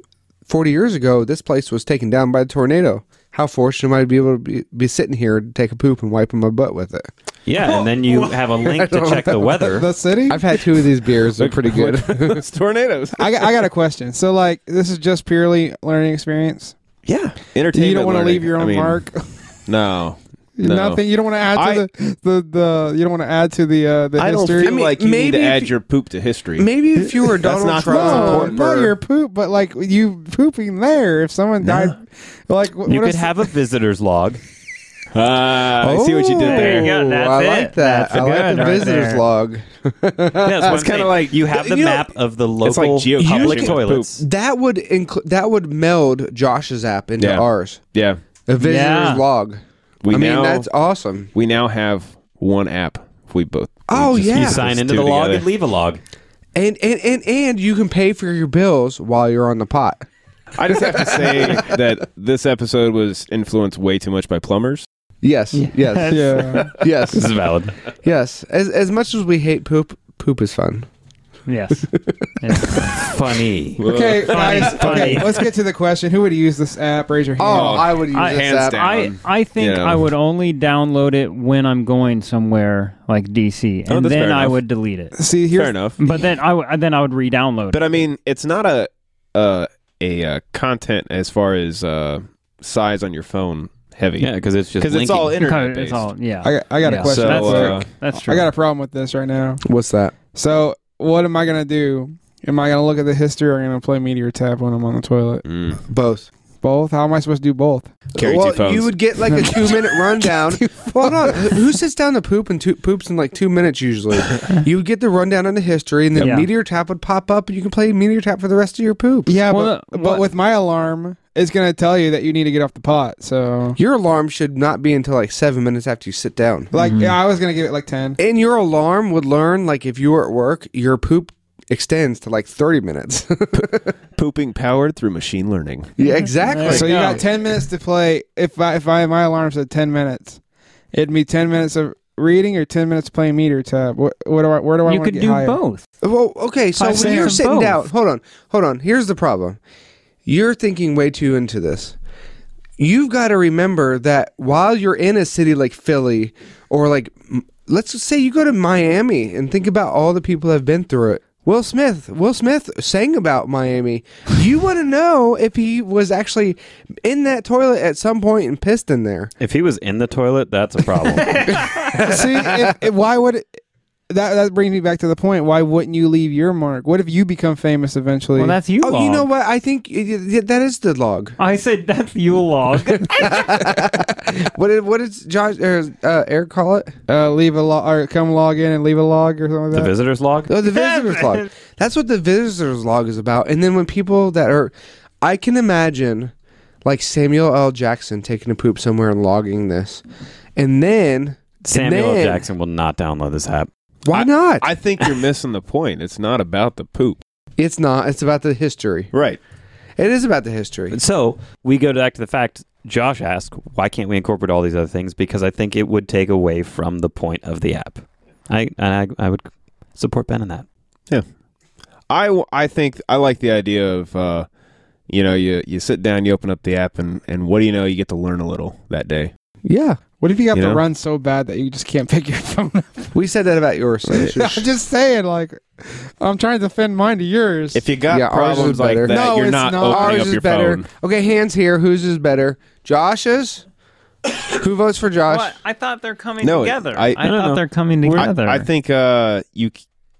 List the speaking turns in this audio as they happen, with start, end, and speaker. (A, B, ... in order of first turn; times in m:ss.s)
0:00.5-0:07.1 A
0:07.5-0:09.9 B
0:08.0-0:09.7 A
0:09.7-0:10.4 C
0:10.2-0:12.4 A
0:11.4-0:13.6 D
0:13.2-0:16.8 C
0:17.0-0:19.0 D
0:17.7-0:19.2 C
0:19.7-0:21.8 D
0:20.6-0:24.7 C
0:24.2-0:28.9 D
0:24.6-0:25.7 A
0:26.6-0:28.6 A
0:27.8-0:33.5 C
0:31.6-0:32.0 D
0:32.8-0:34.4 B
0:35.1-0:36.9 D
0:35.8-0:40.9 A
0:36.4-0:39.2 E
0:38.1-0:38.7 D
0:40.4-0:44.2 B
0:40.6-0:41.4 D
0:41.5-0:42.1 A
0:42.6-0:44.2 D
0:43.2-0:47.8 A
0:47.2-0:48.2 D
0:48.5-0:51.3 A
0:48.6-0:49.2 E
0:50.0-0:50.7 D
0:51.3-0:55.5 D
0:53.9-0:54.6 A
0:54.2-0:56.0 B
0:56.6-1:00.0 A
1:00.6-1:04.8 D
1:00.7-1:01.8 A
1:05.2-1:07.4 A
1:05.5-1:06.8 E
1:06.1-1:06.7 C
1:07.1-1:07.8 B
1:08.0-1:10.9 A
1:11.5-1:12.9 E
1:11.8-1:12.9 A
1:13.0-1:13.8 B
1:13.8-1:15.2 D
1:13.8-1:17.9 C
1:14.2-1:15.3 E
1:17.4-1:18.8 A
1:17.4-1:20.0 D
1:18.1-1:25.1 E
1:23.9-1:24.6 D
1:25.1-1:25.8 C
1:25.5-1:26.0 D
1:26.0-1:27.9 E
1:27.7-1:36.1 D
1:34.2-1:35.4 B
1:35.4-1:38.5 E
1:36.4-1:39.6 C
1:36.9-1:37.9 D
1:37.1-1:37.5 B
1:39.6-1:40.1 A
1:40.3-1:45.4 C
1:45.4-1:45.8 D
1:45.8-1:46.3 A
1:46.6-1:48.0 C
1:48.2-1:48.9 D
1:48.2-1:59.4 A
1:56.2-1:56.5 E
1:59.3-2:03.8 C
1:59.5-2:00.2 E
2:03.8-2:06.7 A
2:06.7-2:08.2 C
2:06.8-2:07.2 E
2:08.2-2:13.9 A
2:13.5-2:15.9 D
2:16.0-2:17.2 A
2:16.4-2:17.2 E
2:16.6-2:20.4 C
2:20.9-2:25.6 C
2:24.9-2:25.8 E
2:26.0-2:29.6 A
2:26.8-2:27.9 E
2:27.0-2:27.4 C
2:30.2-2:32.0 A
2:32.8-2:49.3 A
2:49.4-2:51.6 B
2:51.0-2:52.1 E
2:51.9-2:52.8 A
2:52.0-2:53.4 C
2:54.1-2:58.6 C
2:58.3-2:59.3 E
2:58.8-3:01.3 A
3:01.4-3:03.8 E
3:02.9-3:06.9 A
3:07.1-3:09.9 C
3:09.7-3:10.5 B
3:10.5-3:16.3 A
3:10.6-3:11.5 E
3:16.8-3:20.0 A
3:20.6-3:22.4 A
3:21.6-3:23.7 B
3:24.0-3:24.7 A
3:24.1-3:27.2 D
3:27.6-3:29.1 A
3:29.1-3:29.4 D
3:30.0-3:31.0 A
3:30.9-3:40.6 B
3:42.1-3:44.5 D
3:45.1-3:49.3 D
3:49.6-3:50.0 A
3:50.2-3:53.1 C
3:50.5-3:50.8 D
3:53.1-3:54.7 A
3:54.3-3:57.9 C
3:57.7-4:00.9 D
3:58.1-4:03.6 A
3:59.0-4:00.4 C
4:04.5-4:05.5 A
4:05.3-4:08.7 E
4:06.4-4:07.2 D
4:07.2-4:08.3 B
4:08.0-4:09.8 D